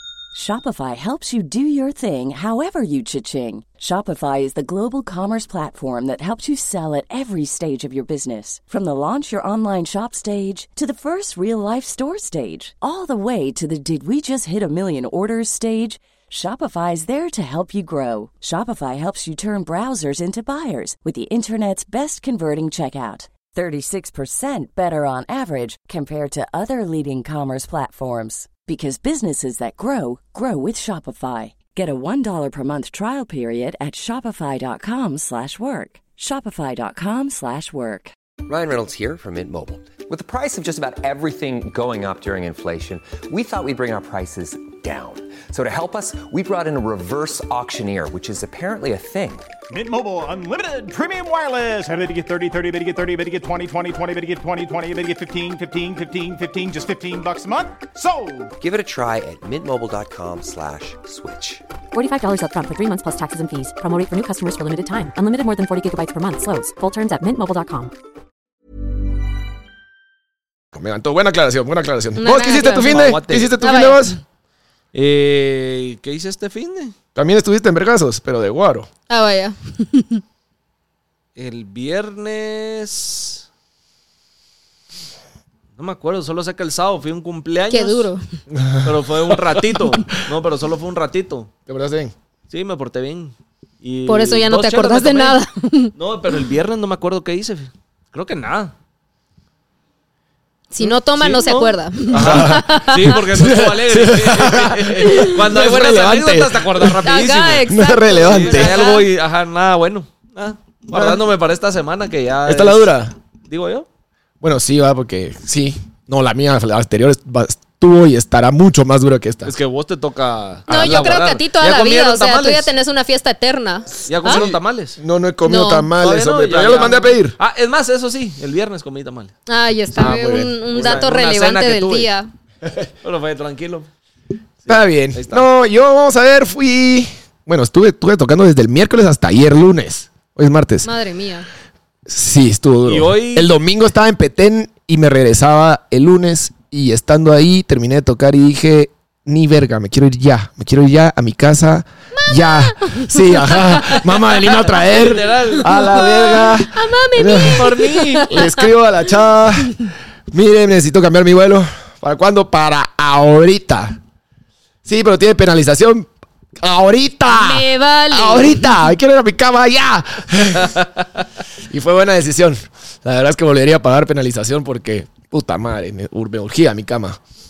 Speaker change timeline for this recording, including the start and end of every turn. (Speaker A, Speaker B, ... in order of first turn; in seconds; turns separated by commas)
Speaker A: 0.3-38.1, Speaker B: 38.4-49.5, Speaker C: 49.7-58.5, Speaker B: 58.6-61.6, Speaker D: 61.9-67.9, Speaker E: 70.7-74.2, Speaker F: 72.2-74.2, Speaker G: 72.8-73.5, Speaker G: 74.9-76.9, Speaker E: 77.1-78.9, Speaker F: 79.1-80.2, Speaker G: 81.4-83.4, Speaker G: 85.8-88.1, Speaker F: 87.7-88.2, Speaker E: 88.5-89.8, Speaker G: 88.8-91.5, Speaker E: 91.7-92.1, Speaker G: 92.5-95.4, Speaker F: 94.1-95.9, Speaker G: 96.0-98.7, Speaker F: 100.7-103.2, Speaker G: 100.8-112.9, Speaker E: 102.1-107.1, Speaker F: 105.0-105.3, Speaker F: 107.0-109.1, Speaker E: 107.7-108.9, Speaker E: 110.9-111.2, Speaker E: 112.5-113.1, Speaker G: 113.5-113.9, Speaker E: 114.4-119.5, Speaker G: 119.4-122.7, Speaker F: 120.7-124.4, Speaker G: 124.1-125.0, Speaker E: 124.3-127.4, Speaker F: 125.5-125.9, Speaker G: 126.0-129.3, Speaker F: 129.5-132.3, Speaker E: 129.9-130.9, Speaker G: 130.7-132.1, Speaker G: 133.0-133.9, Speaker G: 134.7-135.4, Speaker E: 134.7-140.9, Speaker F: 140.8-141.5, Speaker E: 142.1-157.7, Speaker G: 142.8-143.5, Speaker F: 152.1-154.1, Speaker G: 154.5-155.7, Speaker F: 155.6-158.7, Speaker G: 157.3-158.3, Speaker E: 158.3-164.0, Speaker E: 164.8-166.1, Speaker E: 166.6-170.8, Speaker F: 167.3-168.8, Speaker E: 171.7-177.2